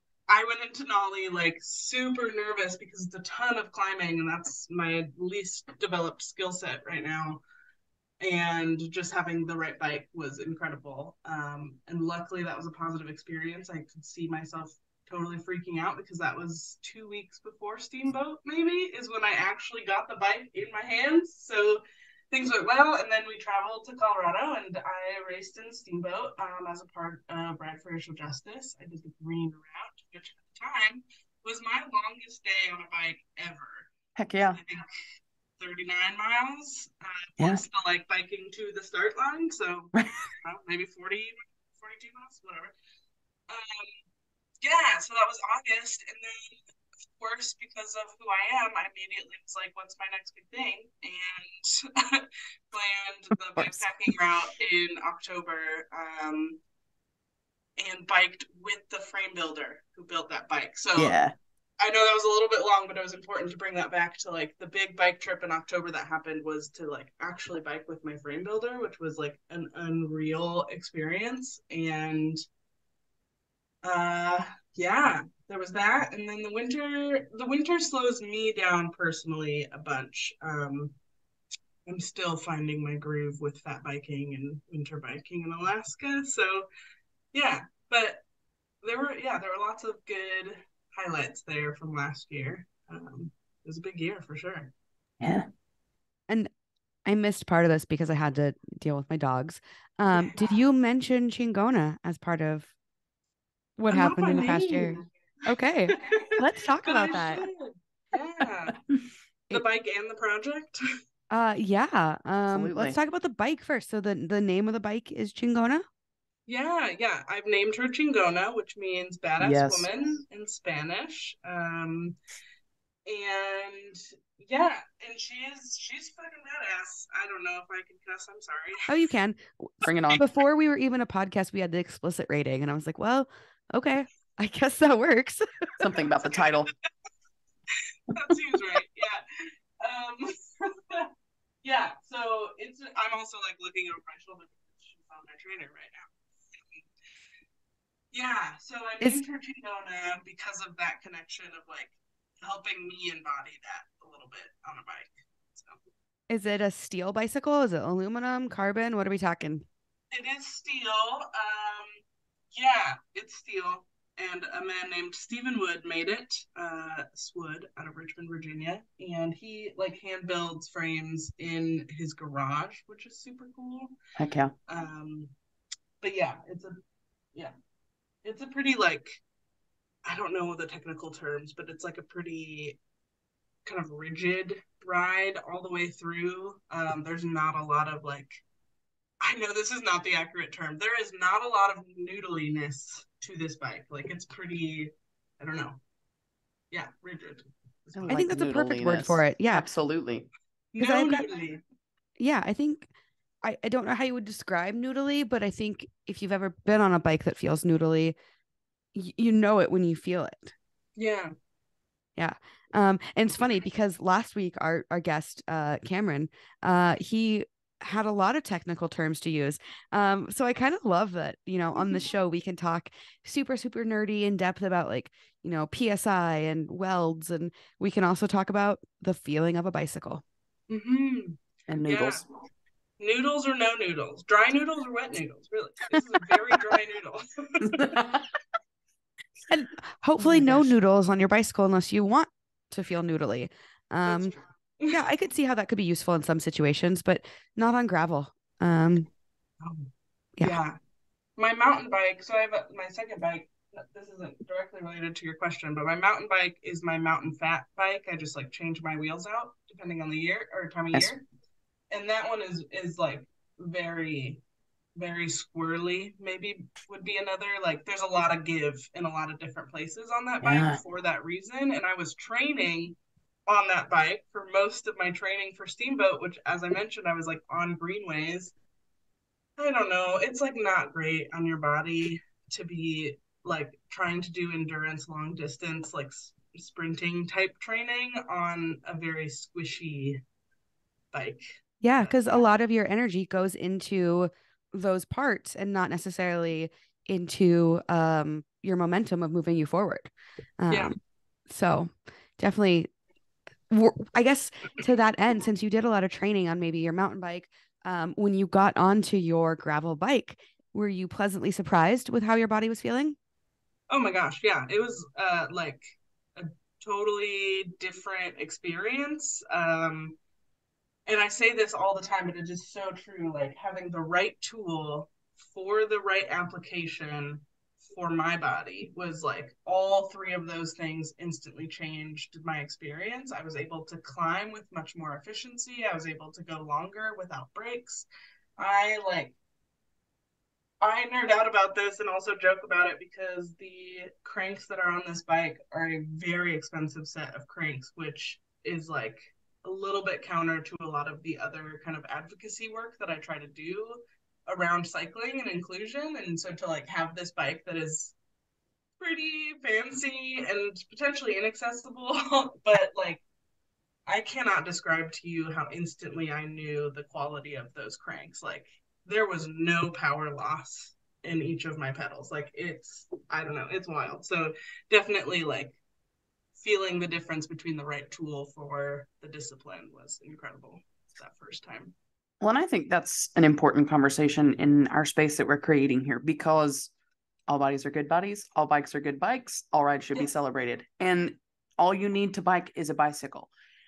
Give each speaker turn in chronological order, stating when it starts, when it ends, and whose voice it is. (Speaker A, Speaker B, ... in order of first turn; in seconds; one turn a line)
Speaker A: 0.3-7.4
Speaker A: 8.2-33.9
Speaker B: 34.1-34.6
Speaker A: 34.5-34.9
Speaker A: 35.6-42.7
Speaker A: 43.5-44.0
Speaker A: 44.6-46.6
Speaker A: 47.2-56.6
Speaker B: 53.6-53.8
Speaker A: 57.8-61.2
Speaker B: 61.0-61.3
Speaker A: 61.8-72.4
Speaker A: 73.8-80.9
Speaker A: 81.8-86.7
Speaker A: 87.3-88.2
Speaker A: 88.8-94.7
Speaker B: 95.2-95.5
Speaker C: 97.0-102.7
Speaker A: 100.1-100.5
Speaker C: 103.8-107.5
Speaker A: 103.9-105.0
Speaker A: 105.9-108.8
Speaker A: 109.5-110.8
Speaker C: 111.3-115.8
Speaker B: 112.5-113.0
Speaker A: 116.5-122.2
Speaker B: 119.4-119.9
Speaker A: 123.1-128.8
Speaker C: 128.9-135.5
Speaker B: 129.8-130.2
Speaker B: 135.8-136.7
Speaker A: 138.1-141.1
Speaker A: 141.6-146.1
Speaker A: 148.1-155.8
Speaker C: 156.3-159.7
Speaker A: 160.1-162.0
Speaker A: 162.5-173.9
Speaker B: 174.2-174.5
Speaker A: 174.7-175.3
Speaker A: 176.0-176.8
Speaker A: 178.2-179.2
Speaker A: 180.1-182.8
Speaker A: 183.6-188.4
Speaker A: 189.2-195.8
Speaker A: 196.7-198.4
Speaker B: 197.9-200.3
Speaker C: 198.1-199.7
Speaker A: 200.7-201.6
Speaker C: 200.8-201.2
Speaker C: 202.2-202.9
Speaker C: 203.4-208.1
Speaker C: 208.9-210.5
Speaker A: 211.0-211.3
Speaker C: 212.2-230.2
Speaker A: 230.7-232.2
Speaker B: 231.7-232.2
Speaker A: 233.0-238.0
Speaker B: 237.7-238.2
Speaker C: 239.5-244.4
Speaker C: 244.9-249.1
Speaker A: 249.6-249.9
Speaker A: 250.4-250.8
Speaker A: 251.4-261.2
Speaker A: 261.9-264.4
Speaker A: 265.0-272.9
Speaker B: 270.4-270.8
Speaker A: 273.5-278.5
Speaker A: 279.6-290.2
Speaker A: 291.1-292.4
Speaker C: 291.8-300.9
Speaker C: 301.5-302.9
Speaker C: 303.7-313.1
Speaker A: 313.9-320.2
Speaker A: 321.1-338.1
Speaker A: 338.6-339.3
Speaker A: 340.8-358.1
Speaker A: 359.0-363.2
Speaker A: 364.1-375.8
Speaker A: 376.6-381.9
Speaker B: 382.4-386.9
Speaker B: 387.5-393.5